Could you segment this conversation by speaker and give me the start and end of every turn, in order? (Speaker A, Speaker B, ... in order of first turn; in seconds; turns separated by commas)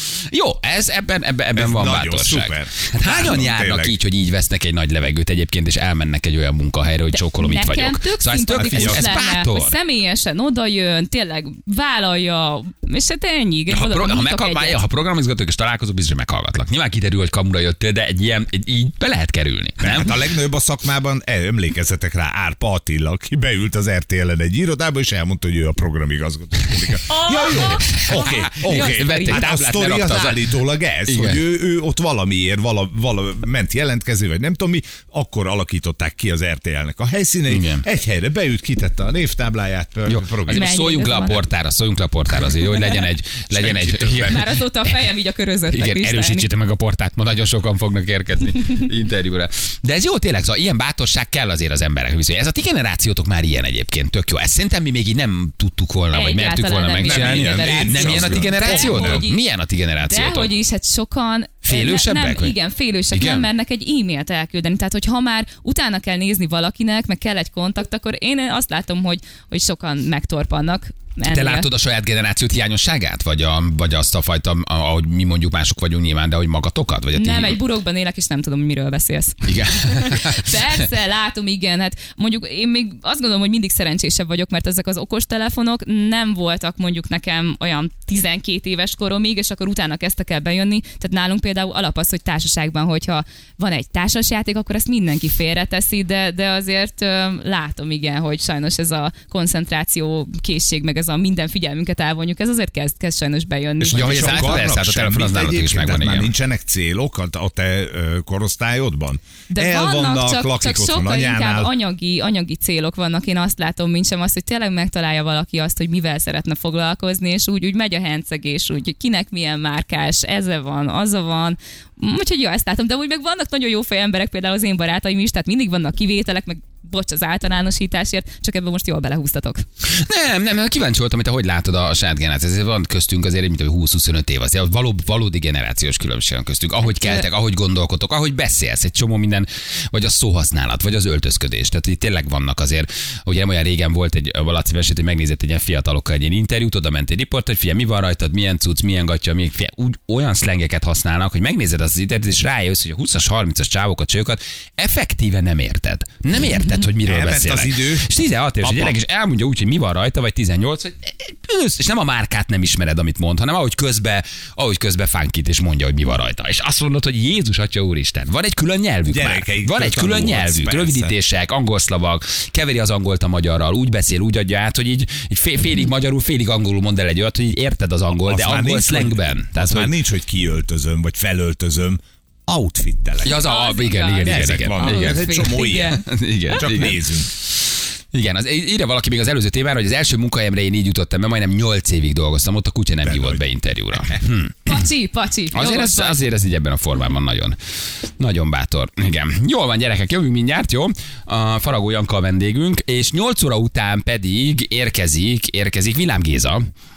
Speaker A: 0.3-9.8, Speaker B: 1.6-4.0, Speaker C: 7.1-14.8, Speaker B: 8.6-9.2, Speaker A: 13.7-20.2, Speaker B: 19.8-40.7, Speaker C: 27.1-29.5, Speaker A: 27.5-30.5, Speaker A: 31.1-31.4, Speaker A: 37.5-37.8, Speaker A: 40.1-45.0, Speaker C: 40.5-41.5, Speaker B: 43.5-44.4, Speaker C: 44.2-46.5, Speaker A: 45.7-60.5, Speaker C: 56.1-59.4, Speaker B: 57.0-59.3, Speaker C: 60.0-71.7, Speaker A: 61.6-62.6, Speaker A: 63.1-63.5, Speaker A: 71.2-77.6, Speaker C: 77.1-104.7, Speaker A: 79.5-80.7, Speaker B: 103.8-111.7, Speaker A: 103.9-106.3, Speaker C: 109.5-129.6, Speaker A: 129.9-179.9, Speaker C: 136.8-137.3, Speaker B: 157.0-158.1, Speaker B: 158.6-159.0, Speaker B: 169.1-171.1, Speaker B: 178.2-183.4, Speaker A: 183.2-187.1, Speaker C: 183.2-186.0, Speaker B: 184.2-187.3, Speaker A: 188.1-194.8, Speaker B: 193.0-194.2, Speaker C: 194.7-196.2, Speaker A: 195.5-197.6, Speaker A: 198.2-206.7